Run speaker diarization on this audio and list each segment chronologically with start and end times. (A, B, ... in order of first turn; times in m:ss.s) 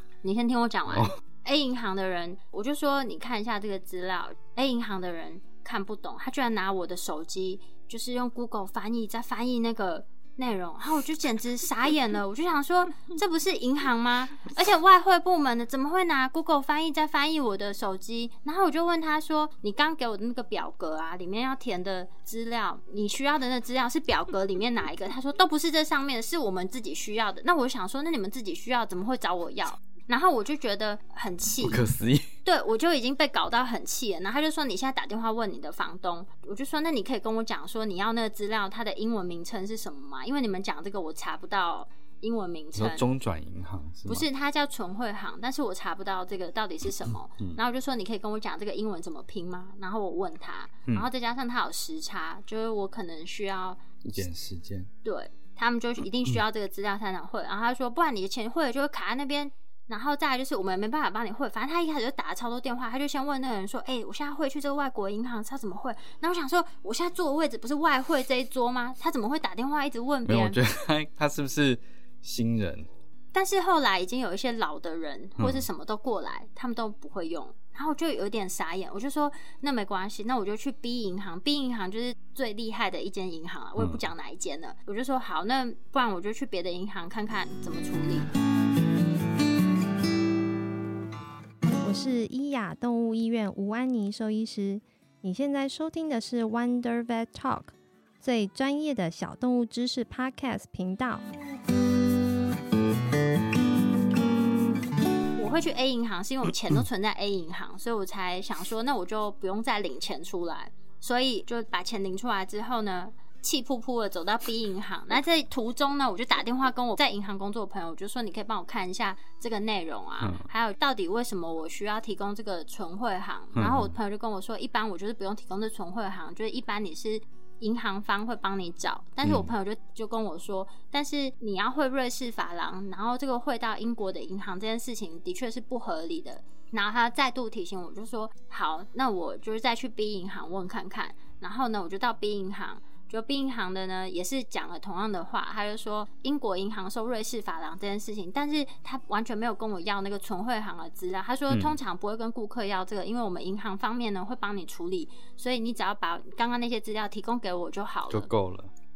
0:00.2-0:31.8 A
0:31.6-0:32.3 B
0:32.4-0:43.0 A
0:42.8-0:44.3 B
0:44.1-0:53.8 A
0:54.0-0:54.9 B
0:55.0-1:10.6 A
1:10.3-1:12.9 B
1:13.3-1:28.3 A
1:15.4-1:15.6 B
1:31.8-1:41.2 C
1:45.4-2:38.3 A
2:03.6-2:03.9 B
2:09.2-2:09.5 B
2:31.5-2:31.8 B
2:38.1-2:38.7 B